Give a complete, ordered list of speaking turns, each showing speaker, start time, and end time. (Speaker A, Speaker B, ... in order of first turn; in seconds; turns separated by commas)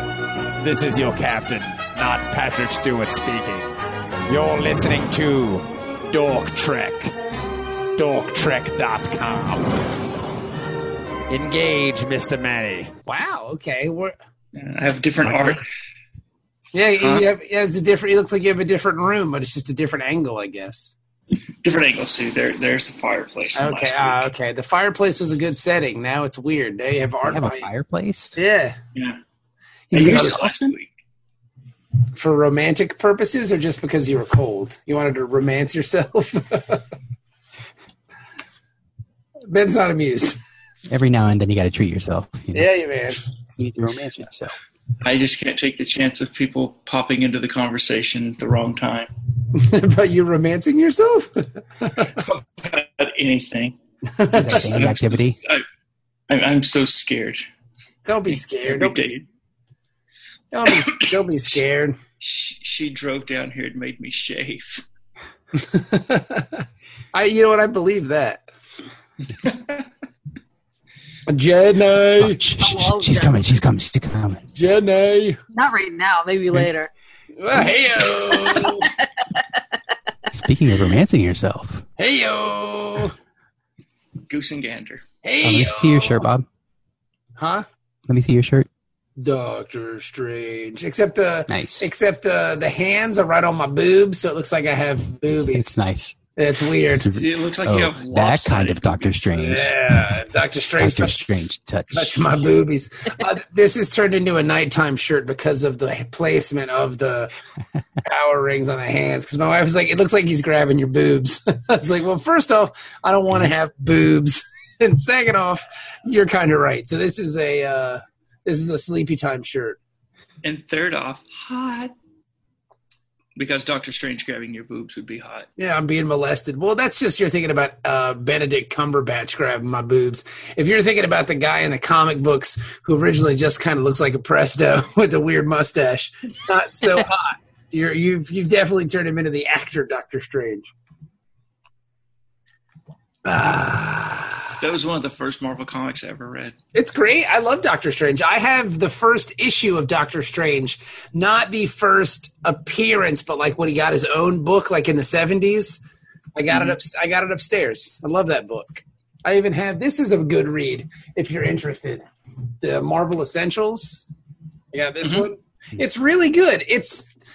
Speaker A: 0.6-3.7, Speaker A: 4.3-7.2, Speaker A: 8.0-9.7, Speaker A: 11.3-12.9, Speaker B: 13.1-14.1, Speaker C: 14.5-15.7, Speaker B: 16.7-20.9, Speaker C: 17.0-17.3, Speaker C: 21.6-24.3, Speaker B: 23.6-27.7, Speaker D: 27.2-28.4, Speaker B: 28.4-28.8, Speaker B: 29.9-30.7, Speaker C: 29.9-30.9, Speaker B: 32.2-36.8, Speaker B: 39.5-40.4, Speaker D: 40.9-42.7, Speaker B: 42.5-43.2, Speaker D: 43.6-44.5, Speaker C: 45.0-49.1, Speaker B: 49.5-52.1, Speaker C: 52.0-53.8, Speaker B: 54.1-54.7, Speaker C: 54.3-55.6, Speaker D: 54.3-55.4, Speaker C: 56.3-57.5, Speaker B: 58.1-59.1, Speaker C: 58.3-59.2, Speaker B: 60.5-62.0, Speaker C: 62.2-64.8, Speaker B: 65.5-68.5, Speaker C: 69.4-69.8, Speaker B: 71.3-72.4, Speaker D: 72.2-74.5, Speaker E: 72.6-73.4, Speaker B: 74.5-75.4, Speaker E: 75.5-76.9, Speaker B: 77.4-78.9, Speaker E: 78.5-79.0, Speaker D: 80.3-81.8, Speaker B: 82.0-83.1, Speaker C: 84.3-85.0, Speaker B: 85.2-86.3, Speaker D: 85.4-86.5, Speaker B: 87.4-87.7, Speaker D: 88.1-88.7, Speaker B: 89.2-95.7, Speaker D: 91.5-91.9, Speaker D: 95.3-96.2, Speaker B: 96.4-97.1, Speaker D: 96.9-100.2, Speaker C: 97.1-99.4, Speaker B: 99.3-101.2, Speaker D: 100.8-102.5, Speaker B: 101.9-107.3, Speaker B: 108.0-119.8, Speaker C: 120.4-121.9, Speaker C: 123.4-125.5, Speaker B: 125.6-140.7, Speaker B: 143.2-144.6, Speaker C: 144.6-146.6, Speaker B: 146.7-155.8, Speaker B: 156.3-162.1, Speaker B: 162.6-164.1, Speaker B: 164.7-167.1